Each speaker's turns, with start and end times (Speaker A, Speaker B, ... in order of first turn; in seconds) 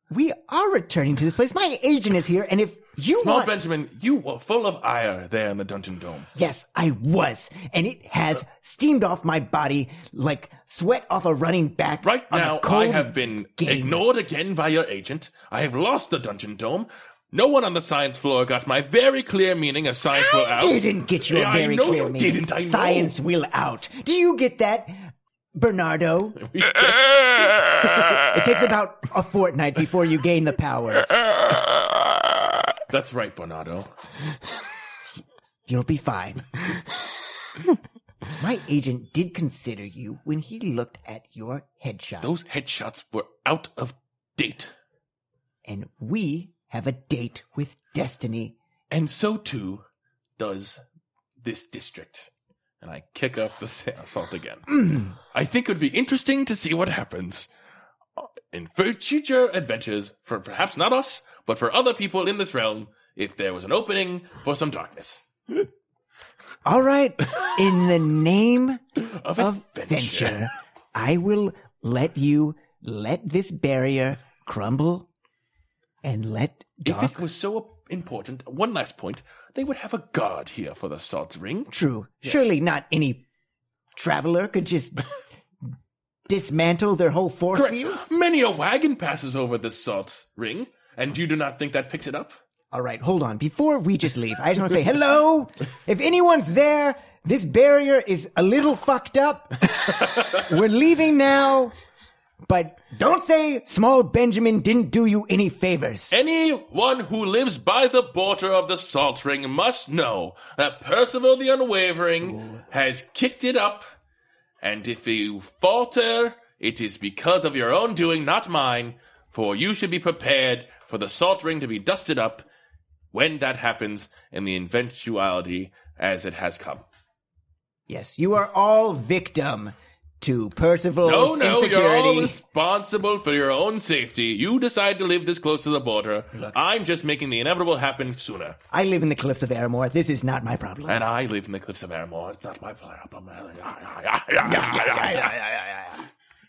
Speaker A: 0.1-3.5, 6.3-14.0, 20.1-31.2, 35.7-36.6, 38.4-42.3, 45.6-48.6, 66.7-75.1, 76.0-77.2, 81.7-83.2, 84.0-85.1, 86.3-88.0, 92.7-101.7, 102.5-106.2, 127.9-132.4, 138.7-141.1, 144.4-146.0
Speaker B: 3.2-6.3, 12.0-23.1, 26.5-27.4, 32.9-33.9, 42.2-44.7, 48.9-49.9, 50.4-50.8, 51.4-52.3, 52.8-57.5, 58.5-65.2, 69.0-70.5, 76.8-81.7, 82.2-82.5, 87.5-92.4, 106.1-113.9, 114.6-122.5, 123.1-126.9, 131.0-138.6, 140.9-145.3